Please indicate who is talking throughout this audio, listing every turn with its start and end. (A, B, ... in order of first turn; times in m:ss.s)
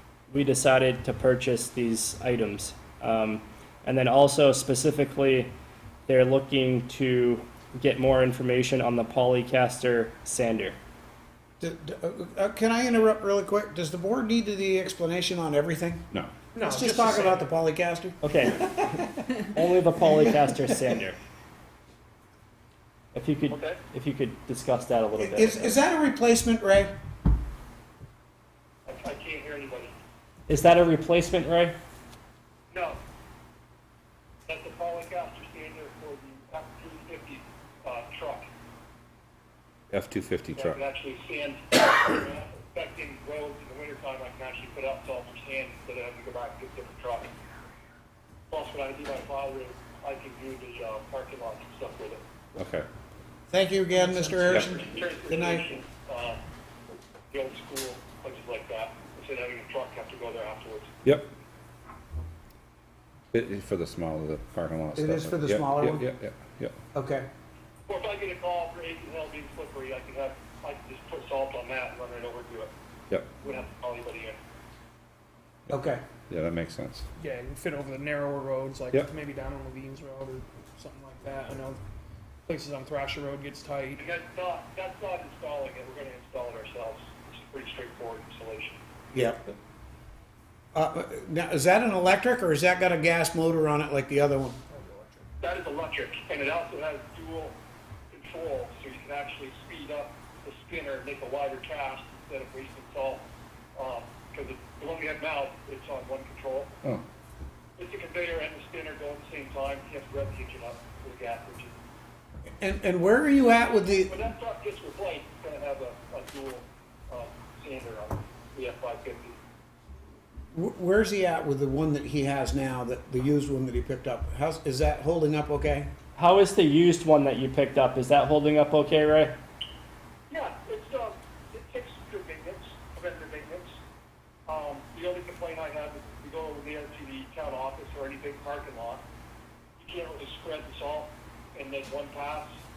0:00.3-0:05.5 A
0:06.1-0:10.8 A
0:11.6-0:16.1 B
0:16.5-0:17.6 C
0:16.6-0:18.9 B
0:18.2-0:21.2 A
0:20.0-0:20.3 B
0:23.1-0:25.8 A
0:23.5-0:23.8 D
0:25.1-0:26.9 B
0:28.8-0:29.9 D
0:30.5-0:31.8 A
0:32.7-0:33.0 D
0:34.5-0:38.5 D
0:39.9-0:40.8 E
0:40.5-0:47.3 D
0:48.5-0:52.2 D
0:52.6-0:52.9 E
0:53.5-0:55.7 B
0:54.4-0:56.4 D
0:57.3-1:00.9 D
1:01.0-1:01.3 E
1:03.3-1:06.8 E
1:05.0-1:06.1 B
1:06.9-1:07.3 B
1:07.9-1:12.7 D
1:13.4-1:14.4 D
1:15.7-1:16.0 B
1:16.3-1:17.1 E
1:17.2-1:21.8 C
1:22.5-1:24.0 C
1:24.0-1:28.8 D
1:29.1-1:29.4 B
1:30.7-1:34.6 B
1:34.7-1:35.2 C
1:35.4-1:37.6 D
1:38.1-1:43.2 D
1:43.8-1:46.7 D
1:47.8-1:51.7 D
1:52.6-1:54.2 B
1:53.7-1:59.4 D
2:00.5-2:05.9 B
2:06.2-2:09.4 A
2:10.3-2:13.7 D
2:14.5-2:19.0 D
2:19.8-2:22.5 D